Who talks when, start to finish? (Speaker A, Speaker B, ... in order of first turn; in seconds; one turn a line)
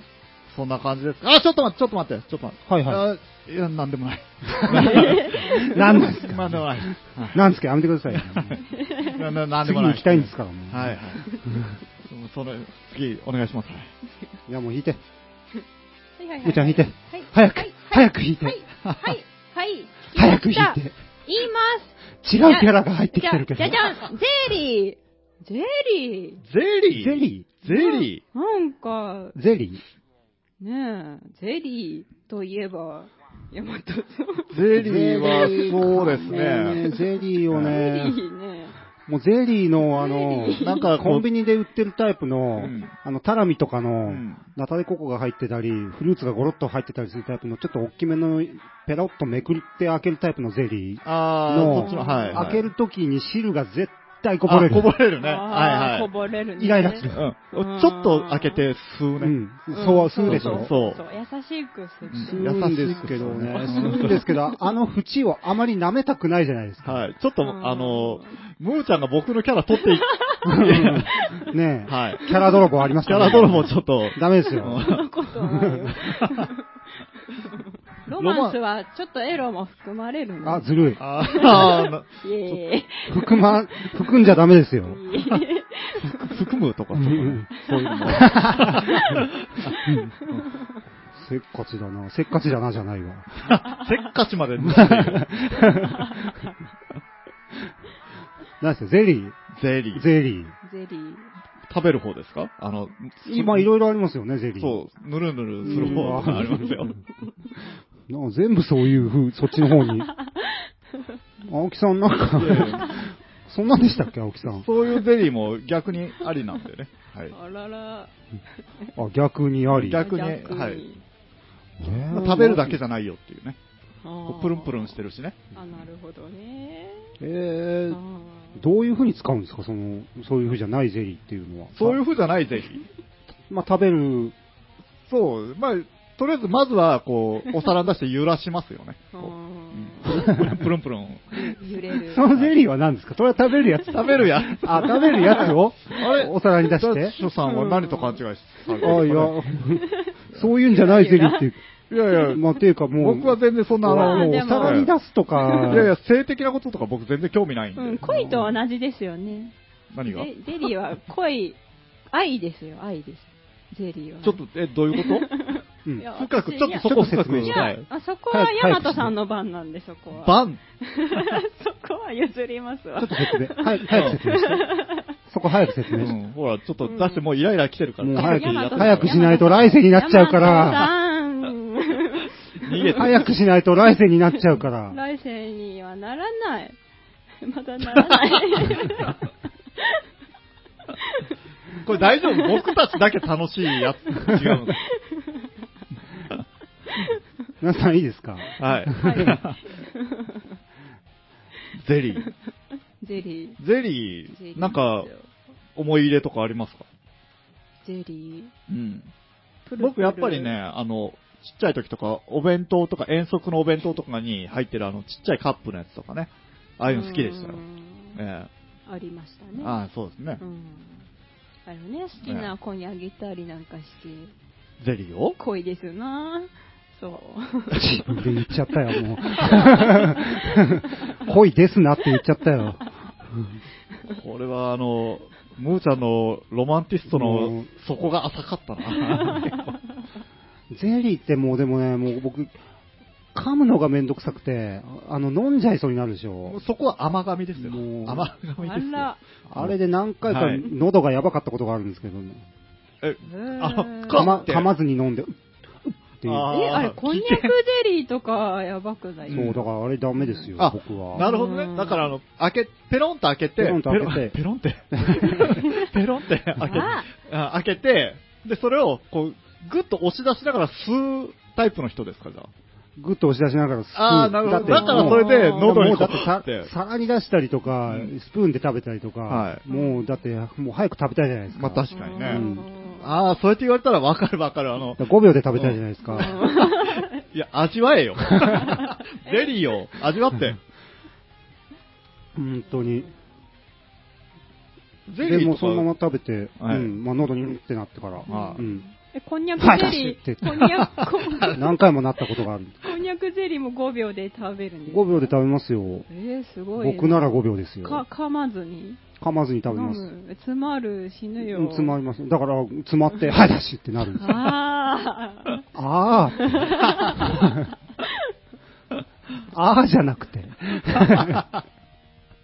Speaker A: 0.5-7.4
Speaker B: 2.7-3.0
Speaker B: 4.6-8.6
Speaker C: 4.7-6.1
Speaker A: 8.1-11.2
Speaker C: 8.6-9.3
Speaker B: 9.6-11.7
Speaker A: 12.1-13.9
Speaker B: 14.5-15.0
Speaker C: 16.2-26.4
Speaker B: 16.4-18.6
Speaker A: 18.8-19.1
Speaker B: 20.1-20.9
Speaker B: 22.2-24.0
Speaker A: 26.4-28.2
Speaker B: 26.9-27.5
Speaker C: 27.6-29.4
Speaker B: 29.3-29.8
Speaker C: 30.6-38.8
Speaker A: 34.5-36.9
Speaker B: 34.7-38.2
Speaker A: 37.5-37.8
Speaker B: 39.1-54.9
Speaker C: 39.9-40.9
Speaker A: 40.5-41.2
Speaker A: 42.6-42.9
Speaker A: 44.1-44.4
Speaker A: 51.0-52.7
Speaker C: 51.7-52.5
Speaker A: 54.5-56.1
Speaker C: 55.2-58.6
Speaker B: 56.6-57.2
Speaker A: 57.0-59.4
Speaker B: 59.2-60.7
Speaker C: 59.7-64.6
Speaker A: 60.2-61.0
Speaker A: 62.1-64.2
Speaker B: 62.3-67.0
Speaker A: 66.8-71.2
Speaker C: 67.4-68.4
Speaker C: 70.0-71.5
Speaker B: 70.5-74.8
Speaker A: 71.9-72.3
Speaker A: 73.0-75.0
Speaker C: 74.7-76.6
Speaker B: 75.5-75.8
Speaker A: 76.0-76.5
Speaker C: 77.3-84.1
Speaker A: 78.2-78.6
Speaker B: 80.4-81.6
Speaker A: 81.0-82.6
Speaker B: 83.1-85.0
Speaker C: 84.8-86.4
Speaker A: 86.0-90.5
Speaker B: 86.9-87.5
Speaker C: 87.5-90.8
Speaker B: 88.0-88.9
Speaker B: 89.8-90.1
Speaker B: 91.1-93.5
Speaker A: 93.4-95.9
Speaker B: 94.6-96.1
Speaker C: 95.7-96.4
Speaker B: 98.6-99.4
Speaker A: 99.5-100.0
Speaker B: 99.9-100.5
Speaker C: 100.6-101.3
Speaker A: 101.7-103.7
Speaker B: 103.2-104.8
Speaker A: 104.6-106.9
Speaker B: 105.6-106.8
Speaker C: 105.7-106.8
Speaker B: 108.1-110.1
Speaker C: 109.8-111.2
Speaker B: 111.4-114.7
Speaker A: 112.3-113.0
Speaker A: 114.6-117.3
Speaker C: 117.3-118.9
Speaker B: 119.0-120.0
Speaker A: 119.7-120.8
Speaker C: 120.0-121.0
Speaker B: 121.8-122.8
Speaker A: 121.8-123.6
Speaker C: 124.0-125.0
Speaker A: 124.3-125.4
Speaker C: 125.5-127.1
Speaker B: 127.2-128.0
Speaker C: 127.9-128.6
Speaker B: 128.6-132.0
Speaker A: 131.7-132.8
Speaker B: 133.5-134.3
Speaker A: 135.1-141.6
Speaker C: 139.1-140.4
Speaker B: 140.1-140.6
Speaker C: 141.3-142.3
Speaker B: 142.0-147.1
Speaker A: 142.3-142.5
Speaker A: 143.9-149.5
Speaker C: 144.7-145.5
Speaker C: 147.2-149.1
Speaker B: 148.8-151.6
Speaker C: 149.6-151.5
Speaker A: 151.9-152.4
Speaker B: 152.3-155.9
Speaker A: 153.0-154.9
Speaker C: 153.9-155.9
Speaker A: 155.7-158.4
Speaker C: 157.8-159.5
Speaker A: 159.9-160.3
Speaker C: 160.1-161.6
Speaker C: 162.1-164.4
Speaker A: 164.2-165.2
Speaker C: 164.9-175.2
Speaker A: 166.2-167.9
Speaker B: 166.8-167.7
Speaker B: 168.3-169.1
Speaker A: 170.1-170.6
Speaker B: 173.0-174.7
Speaker A: 173.9-174.2
Speaker B: 175.2-176.1
Speaker C: 175.7-176.1
Speaker A: 176.0-179.7
Speaker C: 176.8-177.2
Speaker B: 178.0-180.9
Speaker C: 178.1-183.1
Speaker A: 182.6-183.3
Speaker B: 182.9-185.0
Speaker C: 184.9-186.8
Speaker C: 187.4-190.0
Speaker A: 188.0-188.8
Speaker C: 190.9-191.3
Speaker A: 191.8-194.8
Speaker C: 191.9-192.7
Speaker C: 194.7-195.5
Speaker B: 197.6-199.4
Speaker A: 198.6-199.6
Speaker C: 198.9-200.6
Speaker A: 201.7-202.3
Speaker C: 203.0-203.6
Speaker A: 203.6-205.1
Speaker C: 204.3-205.3
Speaker A: 205.8-206.8
Speaker C: 207.8-208.5
Speaker A: 208.7-209.1
Speaker C: 209.7-210.6
Speaker A: 209.8-217.6
Speaker C: 216.8-218.2
Speaker A: 218.1-218.5
Speaker C: 218.8-219.8
Speaker A: 219.6-220.4
Speaker C: 220.4-221.1
Speaker C: 221.7-224.3
Speaker A: 222.2-222.5
Speaker A: 224.8-225.4
Speaker C: 225.4-228.2
Speaker B: 227.7-233.6
Speaker C: 229.3-230.6
Speaker A: 234.1-239.7
Speaker B: 237.1-237.7
Speaker C: 239.0-239.6
Speaker B: 240.7-242.5
Speaker B: 243.3-246.6
Speaker A: 246.4-249.7
Speaker B: 247.6-248.3
Speaker C: 248.6-249.2
Speaker B: 249.5-252.4
Speaker A: 250.2-250.7
Speaker A: 253.0-254.7
Speaker C: 253.2-254.4
Speaker B: 254.1-256.5
Speaker A: 256.2-257.5
Speaker C: 256.5-259.5
Speaker A: 259.3-259.6
Speaker B: 259.3-261.3
Speaker C: 260.2-260.5
Speaker A: 260.6-272.5
Speaker C: 261.1-262.1
Speaker B: 263.6-264.3
Speaker B: 264.9-265.6
Speaker C: 265.5-265.9
Speaker C: 266.6-267.1
Speaker B: 273.0-282.6
Speaker A: 273.9-276.7
Speaker C: 274.6-275.9
Speaker A: 279.3-279.6
Speaker C: 279.7-280.1
Speaker A: 281.5-282.4
Speaker C: 281.9-283.1
Speaker A: 283.0-290.6
Speaker B: 285.0-286.3
Speaker C: 286.1-287.1
Speaker C: 288.5-289.5
Speaker B: 292.4-293.1
Speaker A: 295.1-295.9
Speaker B: 295.2-298.8
Speaker A: 296.6-296.9
Speaker C: 298.3-301.6
Speaker A: 298.3-298.6
Speaker B: 299.6-300.9
Speaker B: 301.5-302.8
Speaker C: 302.8-305.3
Speaker B: 304.9-306.1
Speaker C: 306.1-309.0
Speaker B: 306.8-308.0
Speaker B: 309.2-310.1
Speaker C: 309.7-311.9
Speaker B: 311.4-314.6
Speaker C: 314.2-315.6
Speaker B: 315.7-316.6
Speaker C: 316.4-318.2
Speaker B: 317.2-317.7
Speaker B: 319.5-321.4
Speaker A: 320.9-321.5